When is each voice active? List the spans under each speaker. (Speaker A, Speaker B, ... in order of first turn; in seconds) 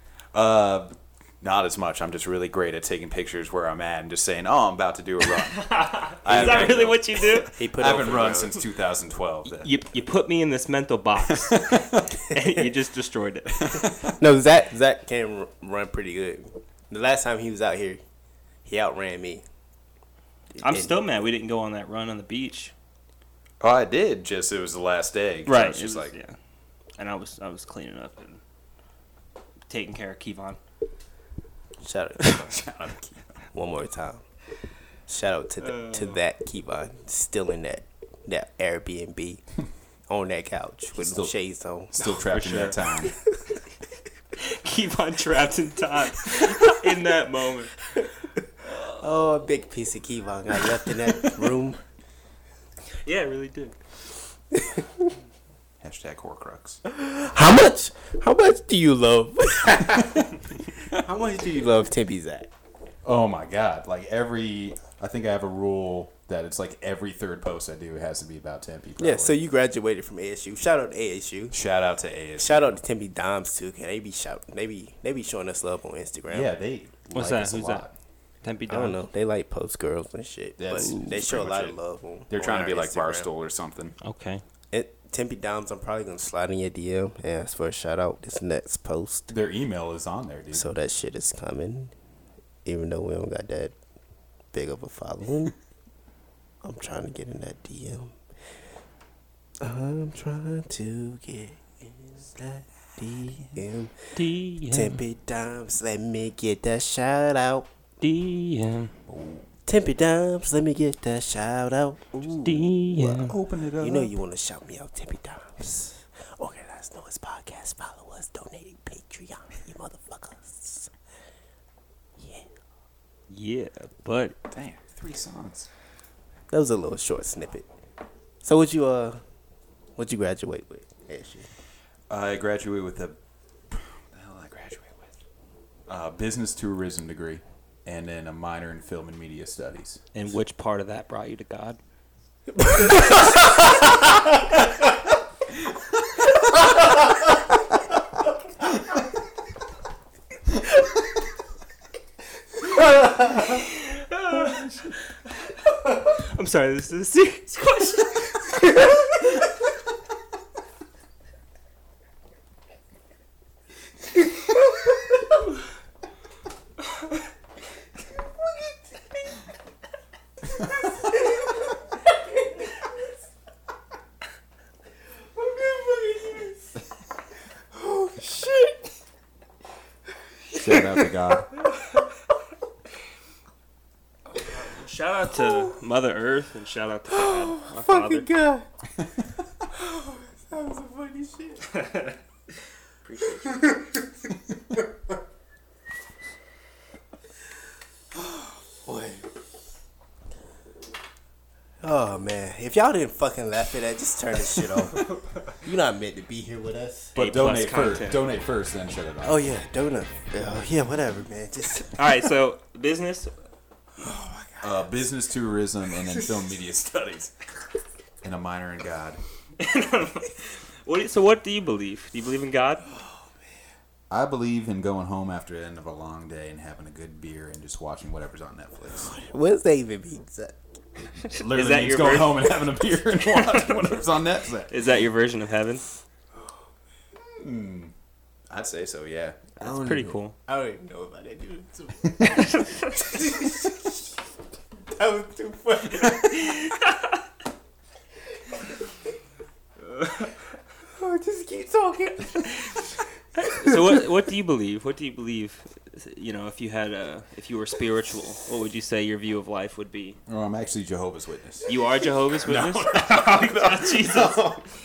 Speaker A: 0.3-9.7, 11.3-12.1, 13.6-14.1, 23.6-26.1, 32.3-33.4, 41.0-41.3, 41.9-43.1, 55.8-56.8, 63.0-69.3, 71.5-72.8, 76.3-77.9, 80.6-81.8, 82.3-83.9, 89.3-90.6, 109.1-109.5, 112.4-114.1, 124.5-125.7, 132.1-133.2, 133.7-135.2, 135.9-140.0, 180.5-181.5, 207.1-209.4, 214.6-217.3, 218.2-219.2, 224.1-229.1, 231.3-234.8, 237.3-237.9, 238.5-240.1, 260.3-261.8, 262.4-264.7
Speaker B: 5.2-7.5, 9.5-13.8, 20.6-22.7, 25.4-26.4, 27.0-28.4, 29.7-30.6, 35.6-36.2, 42.0-42.9, 44.3-47.7, 48.6-49.1, 53.0-53.8, 77.1-77.8, 78.4-79.0, 84.0-84.4, 104.2-105.0, 108.0-108.9, 112.4-113.3, 123.3-124.4, 140.1-141.8, 153.5-155.5, 156.1-159.1, 184.4-188.3, 193.1-193.3, 207.2-208.2, 211.9-213.3, 219.6-222.8, 231.3-232.6, 233.2-233.9, 234.7-235.8, 239.6-240.3, 242.4-243.0, 246.5-247.1, 249.9-250.3, 253.4-260.2, 261.7-264.4
Speaker C: 6.3-6.8, 7.5-8.6, 14.2-18.0, 18.6-19.4, 20.5-21.0, 31.8-32.6, 33.5-34.2, 35.1-39.4, 40.1-42.0, 49.0-51.8, 54.5-54.9, 56.9-62.5, 69.0-71.6, 72.4-76.5, 78.7-83.3, 84.7-89.3, 90.5-91.9, 92.6-93.7, 94.5-95.5, 96.6-98.2, 99.6-107.7, 109.7-112.6, 113.8-120.9, 122.2-122.5, 126.5-127.7, 128.4-129.2, 130.0-131.5, 142.6-143.3, 175.4-176.5, 177.8-178.8, 187.1-188.7, 189.7-191.7, 193.4-193.8, 198.7-199.3, 201.8-205.1, 205.6-207.2, 209.2-212.0, 214.0-214.8, 229.0-230.6, 239.6-242.4, 242.9-243.8, 244.9-246.5, 250.9-252.6